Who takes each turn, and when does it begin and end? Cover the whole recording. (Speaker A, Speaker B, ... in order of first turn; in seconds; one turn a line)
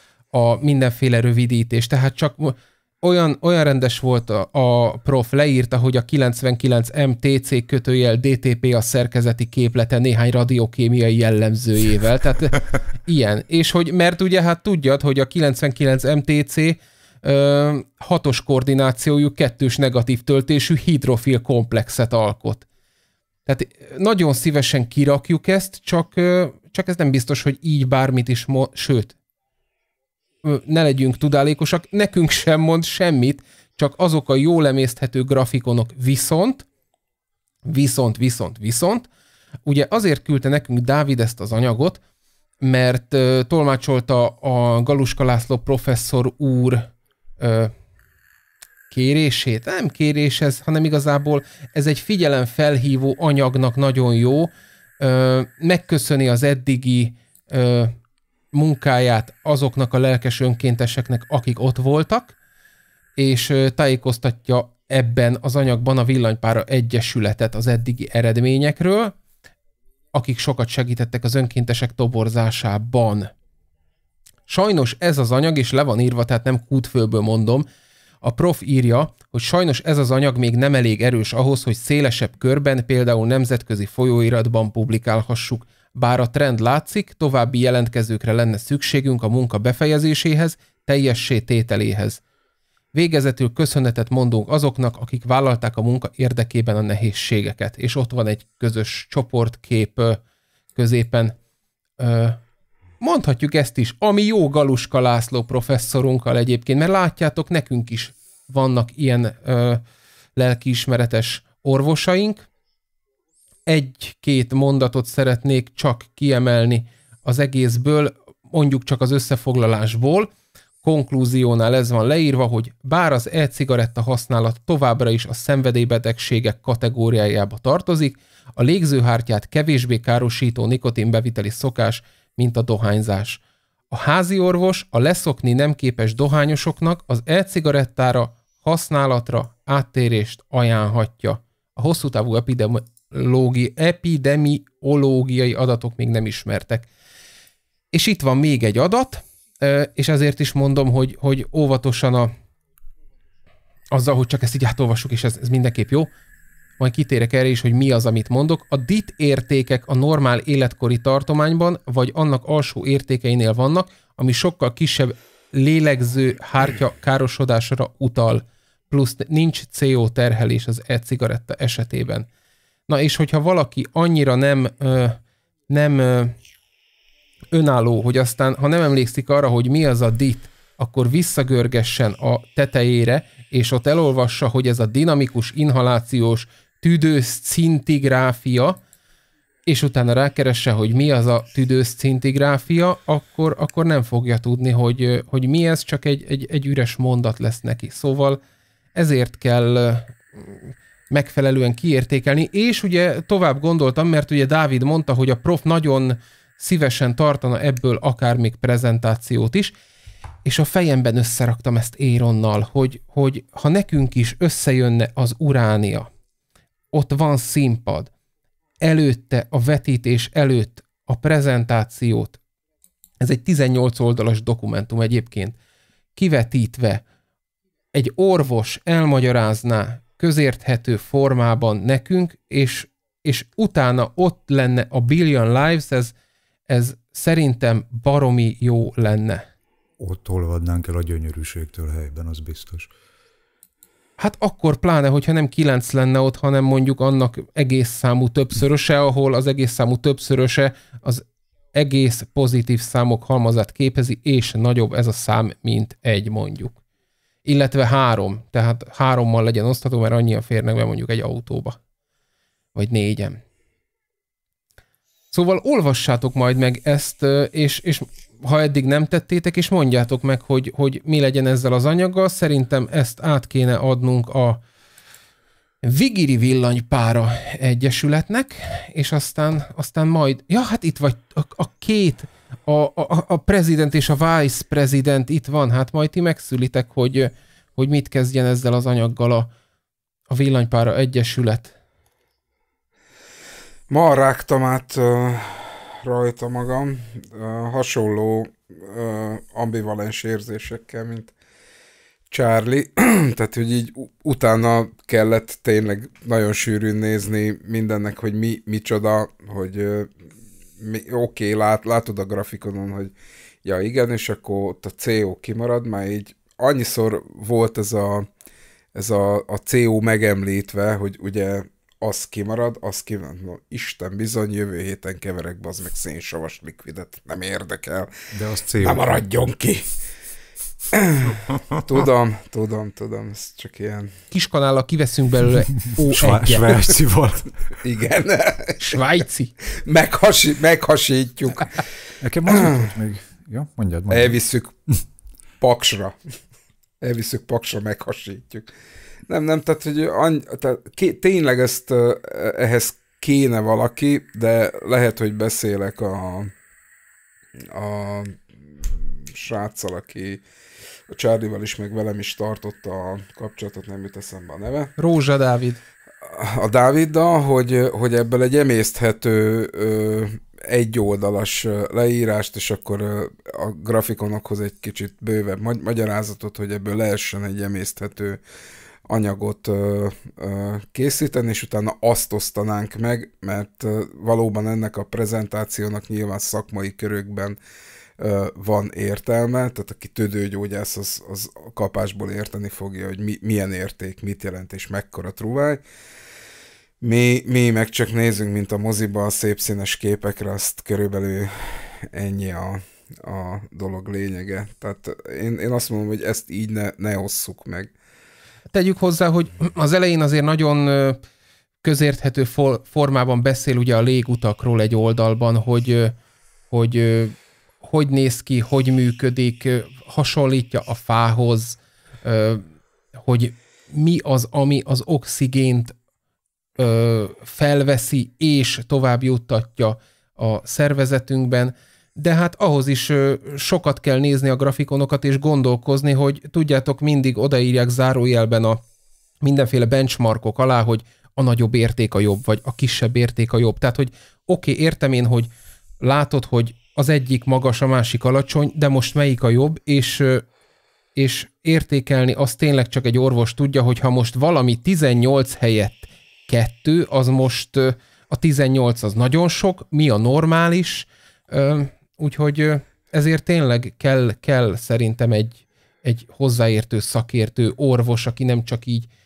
Speaker A: 0.3-22.7
Speaker A: 23.5-29.1
Speaker A: 30.4-36.7
Speaker A: 37.7-39.1
Speaker A: 39.7-42.0
Speaker A: 42.6-46.9
Speaker A: 47.4-47.7
Speaker A: 48.9-58.0
Speaker A: 58.5-62.4
Speaker A: 63.2-69.2
Speaker A: 70.1-73.3
Speaker A: 74.5-77.7
Speaker A: 78.2-92.2
Speaker A: 92.9-100.2
Speaker A: 100.8-101.4
Speaker A: 102.0-102.4
Speaker A: 103.0-109.8
Speaker A: 110.4-112.5
Speaker A: 113.7-120.3
Speaker A: 120.8-146.9
Speaker A: 147.9-152.3
Speaker A: 153.9-156.1
Speaker A: 156.8-172.3
Speaker A: 172.9-176.3
Speaker A: 177.5-188.8
Speaker A: 189.7-198.4
Speaker A: 198.9-209.7
Speaker A: 210.4-216.1
Speaker A: 216.9-218.1
Speaker A: 218.8-222.4
Speaker A: 223.2-225.6
Speaker A: 226.2-227.0
Speaker A: 227.9-236.1
Speaker A: 236.7-239.4
Speaker B: 240.0-242.9
Speaker A: 244.2-256.8
Speaker A: 257.4-261.8
Speaker A: 262.8-263.4
Speaker A: 265.3-274.6
Speaker A: 275.8-289.5
Speaker A: 290.3-291.8
Speaker C: 293.9-301.3
Speaker C: 302.3-310.1
Speaker C: 310.8-313.1
Speaker C: 313.6-318.3
Speaker C: 318.9-328.1
Speaker B: 328.3-329.1
Speaker C: 328.8-329.9
Speaker C: 330.9-334.1
Speaker B: 331.3-331.8
Speaker A: 334.3-336.7
Speaker B: 336.0-337.5
Speaker C: 337.8-339.0
Speaker A: 338.8-339.5
Speaker C: 339.8-341.8
Speaker B: 342.2-344.4
Speaker C: 342.5-342.9
Speaker C: 344.1-344.8
Speaker C: 345.6-346.2
Speaker C: 347.0-348.7
Speaker C: 349.3-356.5
Speaker C: 357.7-358.4
Speaker C: 359.2-360.4
Speaker C: 361.1-364.9
Speaker A: 365.0-365.8
Speaker C: 366.2-378.4
Speaker C: 379.1-387.6
Speaker C: 388.2-395.8
Speaker C: 397.0-407.9
Speaker A: 408.7-411.2
Speaker A: 411.8-416.1
Speaker A: 416.7-422.6
Speaker A: 423.1-425.9
Speaker A: 426.8-438.8
Speaker A: 439.4-450.4
Speaker A: 451.1-469.1